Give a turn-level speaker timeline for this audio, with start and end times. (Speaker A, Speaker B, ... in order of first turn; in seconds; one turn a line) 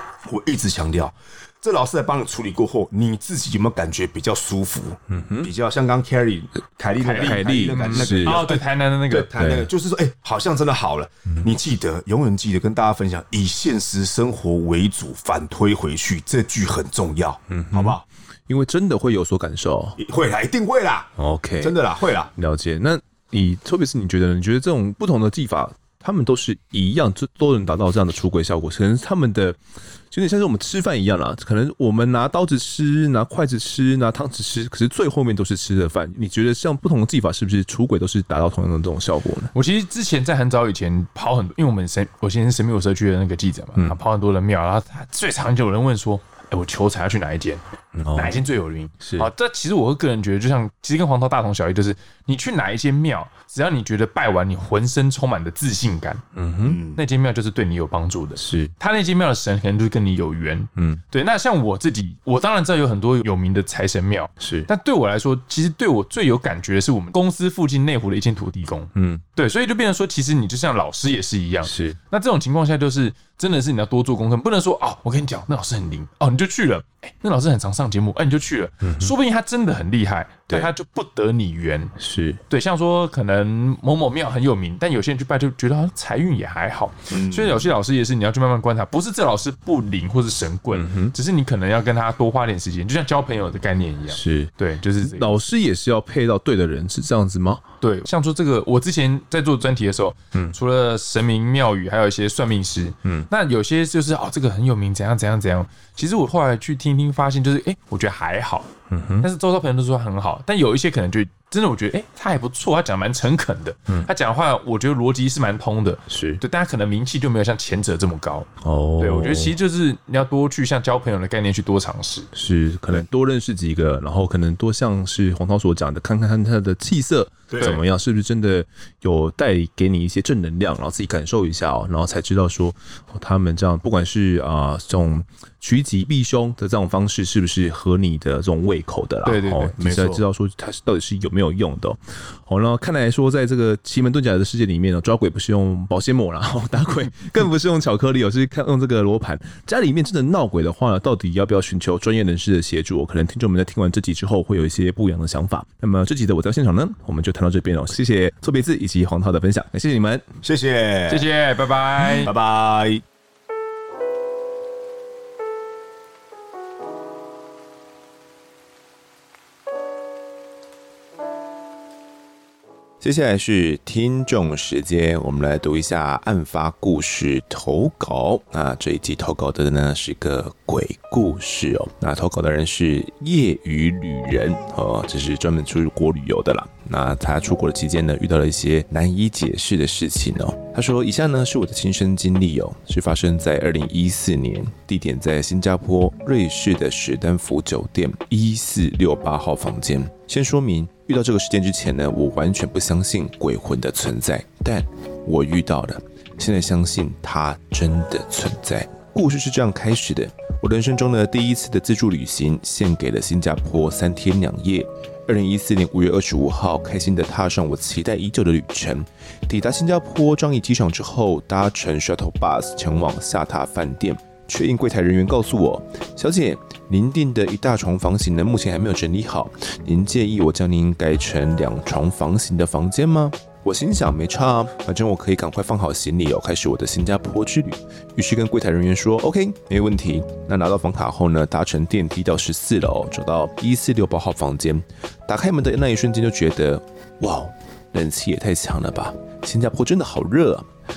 Speaker A: 0.2-18.0
Speaker B: 5.1-5.5
Speaker C: 7.0-9.3
Speaker B: 7.1-8.4
Speaker B: 9.3-9.7
Speaker B: 17.5-20.0
Speaker A: 20.0-22.3
Speaker B: 21.2-21.8
Speaker B: 22.4-29.6
Speaker B: 30.1-39.5
Speaker C: 39.5-47.6
Speaker B: 47.9-48.4
Speaker C: 48.1-56.2
Speaker B: 49.0-49.3
Speaker B: 56.3-56.8
Speaker A: 56.6-57.0
Speaker C: 56.8-81.9
Speaker B: 58.4-58.7
Speaker B: 60.8-61.0
Speaker B: 64.4-64.7
Speaker B: 68.9-69.2
Speaker B: 71.6-72.0
Speaker B: 78.8-79.1
Speaker B: 82.0-82.4
Speaker C: 82.5-95.4
Speaker B: 87.1-87.5
Speaker B: 90.7-91.1
Speaker B: 94.1-97.6
Speaker C: 97.8-122.3
Speaker B: 108.9-109.3
Speaker B: 116.1-116.4
Speaker B: 118.6-119.5
Speaker B: 122.3-160.2
Speaker A: 127.5-127.8
Speaker C: 139.2-140.0
Speaker A: 139.8-140.2
Speaker A: 160.4-161.3
Speaker C: 161.1-162.3
Speaker A: 162.2-163.0
Speaker B: 173.0-250.7